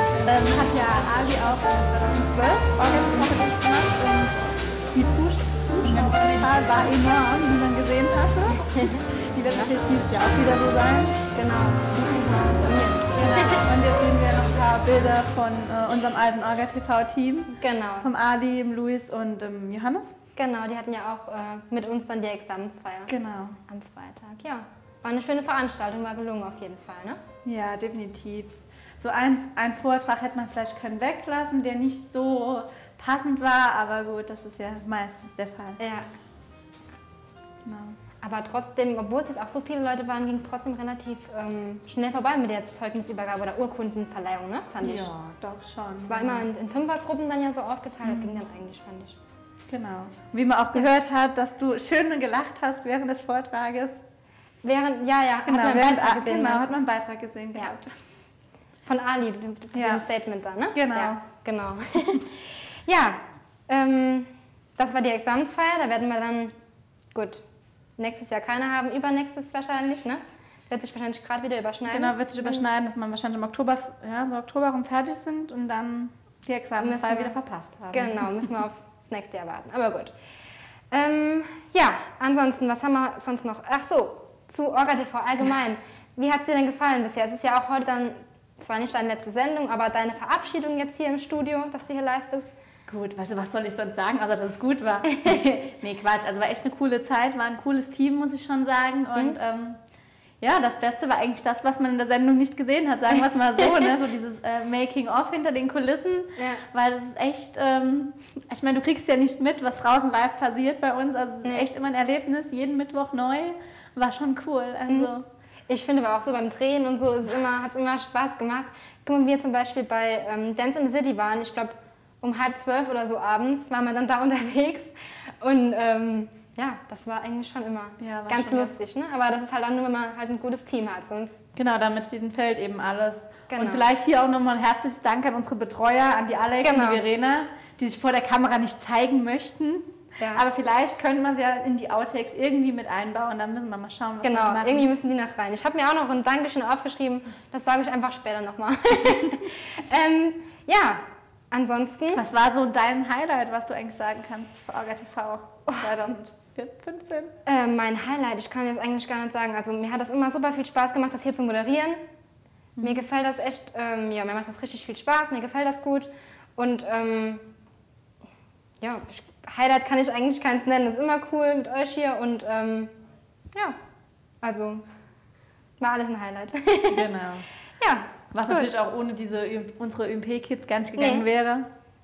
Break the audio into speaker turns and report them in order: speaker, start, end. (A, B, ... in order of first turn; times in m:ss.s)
0:00.2-0:04.4 A
0:04.9-0:11.2 A
0:08.7-0:09.7 B
0:11.3-0:13.6 B
0:13.1-0:20.2 A
0:17.5-0:18.1 B
0:20.4-0:23.1 B
0:23.1-0:23.6 A
0:23.7-0:27.2 B
0:27.4-0:35.8 A
0:35.8-0:36.0 B
0:37.6-0:37.9 A
0:38.2-0:45.1 B
0:44.8-0:46.5 A
0:46.0-0:49.2 B
0:49.7-0:54.0 A
0:54.6-0:56.7 B
0:55.4-0:57.9 A
0:58.9-1:06.5 B
0:59.7-1:00.0 A
1:00.7-1:01.2 A
1:07.1-1:07.4 B
1:08.0-1:12.6 B
1:11.9-1:18.4 A
1:16.8-1:17.3 B
1:17.9-1:20.1 B
1:20.9-1:32.5 B
1:32.9-1:39.8 A
1:40.4-1:55.2 A
1:46.4-1:46.6 B
1:51.4-1:51.7 B
1:55.7-2:11.4 B
2:08.0-2:08.7 A
2:11.6-2:24.9 A
2:13.5-2:13.8 B
2:16.6-2:17.0 B
2:20.2-2:20.4 B
2:24.2-2:32.2 B
2:32.1-2:37.3 A
2:37.4-2:42.0 B
2:42.8-2:47.5 B
2:48.8-2:52.9 B
2:54.4-2:54.8 B
2:55.8-2:57.0 B
2:56.9-2:57.4 A
2:57.8-2:58.7 B
2:58.3-3:01.7 A
3:01.0-3:01.2 B